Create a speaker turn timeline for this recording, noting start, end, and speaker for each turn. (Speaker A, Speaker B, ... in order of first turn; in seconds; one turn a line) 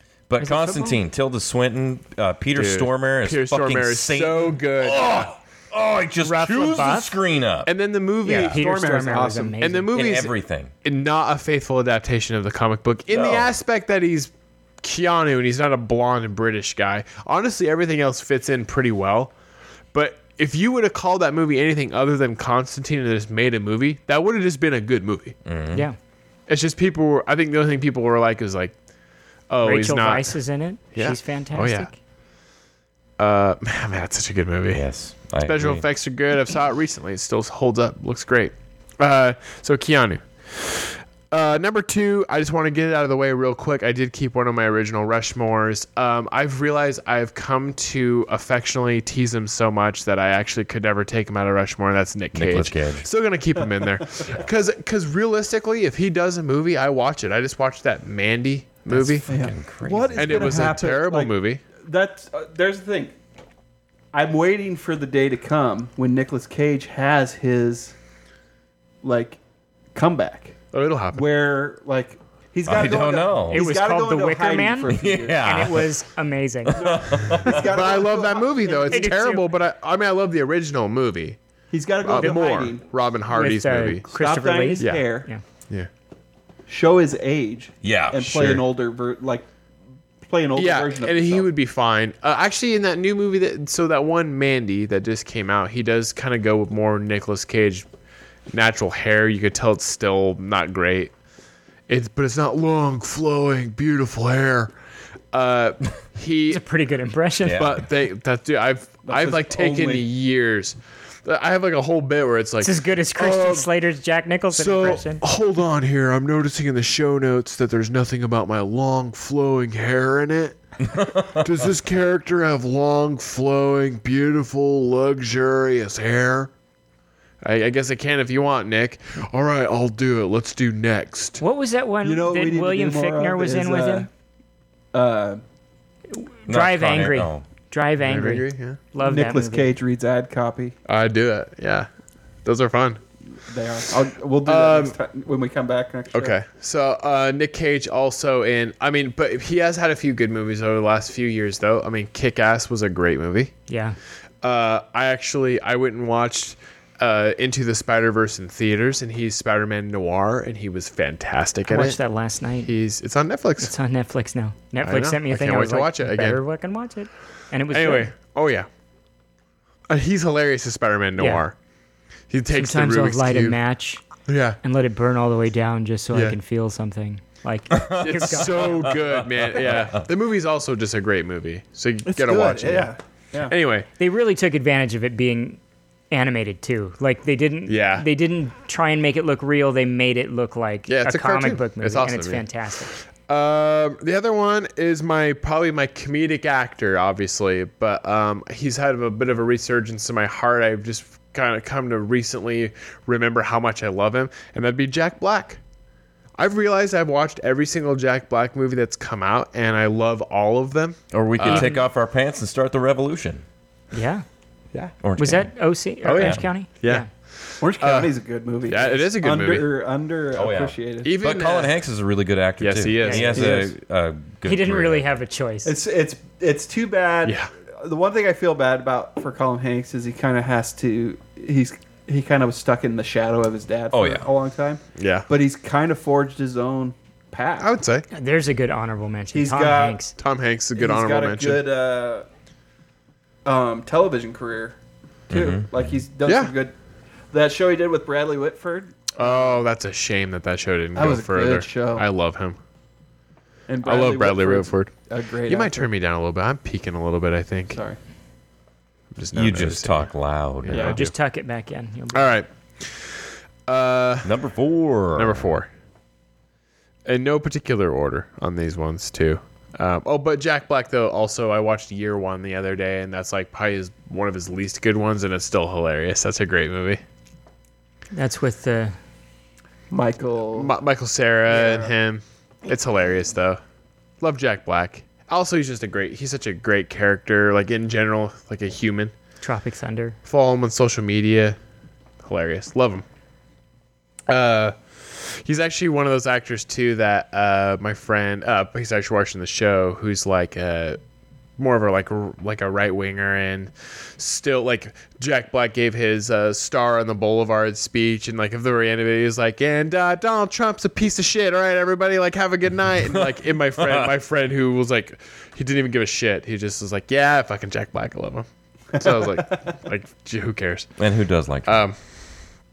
Speaker A: 0.3-7.7
Speaker B: 0.4-1.0
Speaker C: 2.5-5.3
Speaker B: 6.2-7.1
Speaker C: 7.7-8.6
Speaker B: 8.2-9.9
Speaker D: 8.2-9.6
Speaker C: 9.6-10.3
Speaker A: 9.9-10.7
Speaker C: 10.8-14.3
Speaker A: 13.1-13.5
Speaker C: 14.8-19.3
Speaker C: 19.9-25.4
Speaker A: 25.4-25.9
Speaker C: 26.5-28.7
Speaker C: 29.5-30.4
Speaker B: 29.6-31.9
Speaker C: 30.9-31.9
Speaker C: 33.2-34.8
Speaker A: 34.7-35.8
Speaker C: 35.4-59.2
Speaker A: 52.3-53.1
Speaker A: 58.9-60.8
Speaker D: 59.3-63.1
Speaker C: 60.2-61.6
Speaker D: 64.1-67.9
Speaker D: 69.0-69.4
Speaker D: 69.9-70.6
Speaker C: 70.7-71.2
Speaker D: 71.1-75.5
Speaker A: 72.7-73.6
Speaker B: 73.5-76.8
Speaker A: 74.9-75.9
Speaker A: 76.7-77.6
Speaker D: 76.7-79.2
Speaker C: 77.5-81.4
Speaker B: 78.9-79.5
Speaker D: 81.7-82.8
Speaker C: 82.0-84.0
Speaker B: 82.1-82.7
Speaker B: 83.3-85.4
Speaker D: 84.1-85.3
Speaker C: 84.8-85.0
Speaker D: 86.7-89.5
Speaker A: 87.8-88.6
Speaker D: 90.2-91.5
Speaker C: 90.5-97.8
Speaker C: 98.5-101.1
Speaker C: 101.9-104.7
Speaker C: 105.3-106.6
Speaker B: 106.5-107.6
Speaker A: 107.4-107.8
Speaker C: 107.6-113.7
Speaker D: 109.0-110.1
Speaker B: 112.6-115.2
Speaker C: 114.5-120.6
Speaker A: 120.9-121.4
Speaker C: 121.2-126.5
Speaker C: 127.4-131.4
Speaker B: 131.4-134.1
Speaker D: 132.0-134.1
Speaker D: 134.9-135.4
Speaker B: 136.1-139.7
Speaker A: 136.5-137.4
Speaker C: 138.0-138.8
Speaker D: 139.0-140.7
Speaker C: 140.8-141.9
Speaker C: 142.4-143.0
Speaker D: 143.4-146.4
Speaker C: 144.4-144.9
Speaker C: 146.1-153.5
Speaker B: 153.7-154.0
Speaker C: 154.4-162.0
Speaker B: 161.7-162.7
Speaker C: 162.6-163.7
Speaker B: 163.6-168.1
Speaker C: 164.8-166.4
Speaker C: 167.7-168.7
Speaker C: 169.9-171.5
Speaker B: 171.2-171.4
Speaker C: 172.3-173.6
Speaker B: 172.5-174.0
Speaker C: 174.3-174.6
Speaker B: 174.6-178.8
Speaker A: 177.7-180.0
Speaker C: 178.0-182.9
Speaker D: 182.1-183.5
Speaker C: 183.5-183.9
Speaker B: 184.0-185.6
Speaker B: 186.1-192.9
Speaker C: 187.7-188.1
Speaker C: 190.9-192.4
Speaker C: 193.2-205.6
Speaker C: 206.4-211.8
Speaker A: 211.1-213.4
Speaker B: 211.4-211.8
Speaker B: 213.9-214.2
Speaker A: 215.0-215.5
Speaker B: 215.2-217.1
Speaker C: 216.0-218.1
Speaker D: 217.6-221.2
Speaker C: 218.7-219.7
Speaker A: 220.3-225.1
Speaker C: 221.0-221.8
Speaker C: 222.6-223.6
Speaker B: 223.0-223.4
Speaker D: 223.3-223.7
Speaker B: 224.4-225.8
Speaker D: 225.6-237.7
Speaker C: 227.2-227.5
Speaker A: 233.9-234.3
Speaker C: 235.0-235.3
Speaker C: 237.6-238.0
Speaker B: 238.1-240.1
Speaker D: 239.3-240.0
Speaker C: 240.2-241.6
Speaker D: 240.8-242.2
Speaker D: 243.4-244.8
Speaker D: 245.3-246.7
Speaker A: 245.3-245.9
Speaker C: 246.2-246.5
Speaker D: 247.3-249.6
Speaker C: 249.2-252.6
Speaker D: 250.9-252.1
Speaker D: 253.7-255.9
Speaker C: 253.8-254.9
Speaker C: 255.5-257.8
Speaker D: 257.7-258.0
Speaker C: 259.1-260.1
Speaker A: 259.3-260.9
Speaker C: 260.6-261.1
Speaker B: 260.8-262.3
Speaker C: 262.1-264.3
Speaker A: 264.2-265.5
Speaker C: 265.1-265.7
Speaker C: 267.1-277.0
Speaker B: 278.1-279.0
Speaker D: 279.9-280.7
Speaker C: 280.5-283.6
Speaker D: 281.4-281.9
Speaker C: 284.2-289.1
Speaker B: 289.4-290.2
Speaker C: 290.2-291.6
Speaker C: 292.2-293.0
Speaker C: 294.3-301.0
Speaker C: 301.6-320.9
Speaker A: 313.1-314.1
Speaker D: 319.0-319.7
Speaker A: 321.0-321.8
Speaker C: 321.6-322.0